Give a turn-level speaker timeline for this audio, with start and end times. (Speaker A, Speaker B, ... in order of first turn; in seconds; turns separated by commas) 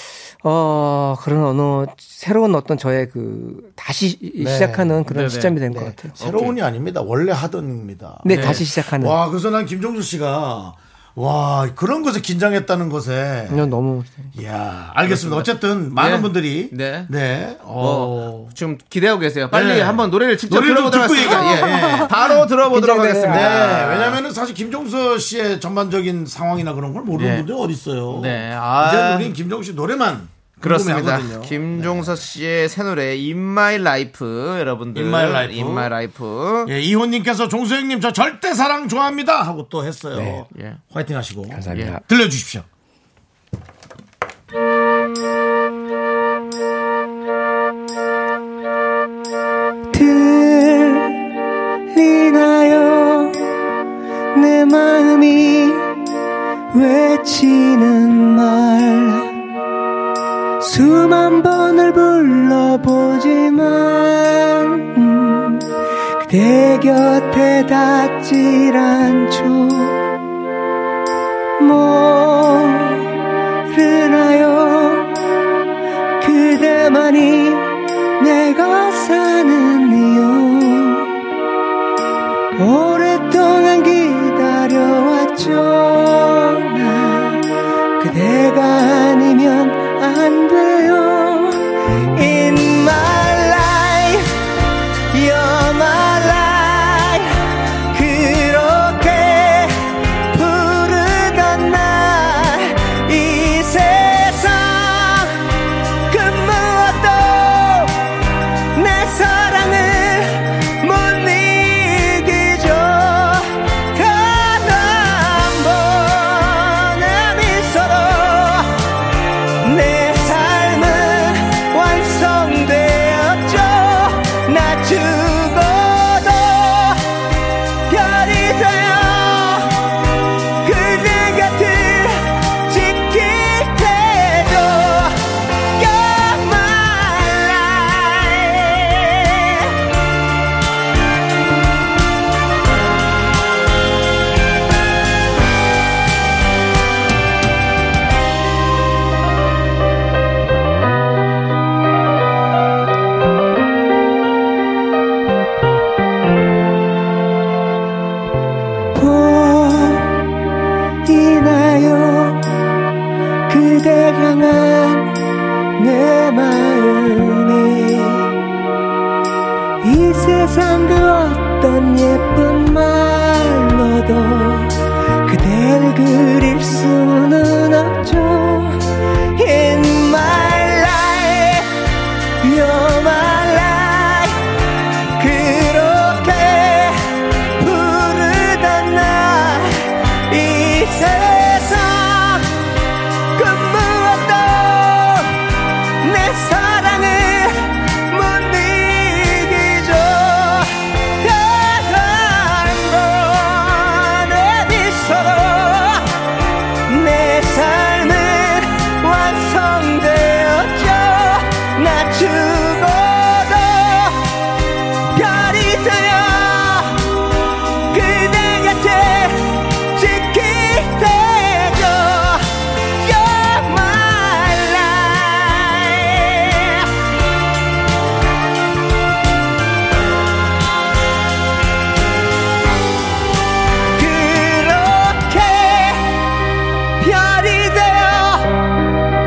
Speaker A: 0.4-6.1, Speaker B: 4.4-5.0, Speaker C: 5.1-5.6, Speaker B: 5.7-13.7, Speaker C: 6.2-6.6, Speaker A: 8.2-9.2, Speaker C: 8.3-8.6, Speaker A: 13.5-14.3, Speaker B: 14.3-18.5, Speaker C: 15.1-17.1, Speaker C: 17.8-24.2, Speaker B: 19.5-22.3, Speaker A: 21.4-23.7, Speaker B: 23.3-32.2, Speaker C: 27.1-27.5, Speaker C: 28.1-29.3, Speaker C: 30.6-36.7, Speaker B: 34.9-35.9, Speaker B: 36.6-42.7, Speaker A: 40.1-40.4, Speaker C: 40.5-40.8, Speaker A: 41.5-42.0, Speaker C: 41.7-42.0, Speaker A: 49.9-51.2, Speaker A: 51.9-53.4, Speaker A: 54.3-56.0, Speaker A: 56.7-59.3, Speaker A: 60.6-65.7, Speaker A: 66.2-70.0, Speaker A: 71.6-73.1, Speaker A: 73.7-75.1, Speaker A: 76.2-81.1, Speaker A: 82.6-87.4, Speaker A: 88.0-94.4, Speaker A: 95.1-105.5, Speaker A: 106.1-108.1, Speaker A: 108.7-118.9, Speaker A: 119.6-127.2, Speaker A: 127.9-129.9, Speaker A: 130.6-139.8, Speaker A: 158.9-160.2, Speaker A: 161.1-162.4, Speaker A: 163.5-165.2, Speaker A: 165.8-168.3, Speaker A: 169.8-178.8, Speaker A: 179.3-181.8, Speaker A: 182.4-184.4, Speaker A: 185.2-192.5, Speaker A: 193.3-195.4, Speaker A: 196.0-206.1, Speaker A: 206.9-214.3, Speaker A: 215.1-217.1, Speaker A: 217.9-226.9, Speaker A: 233.9-236.3, Speaker A: 237.0-238.6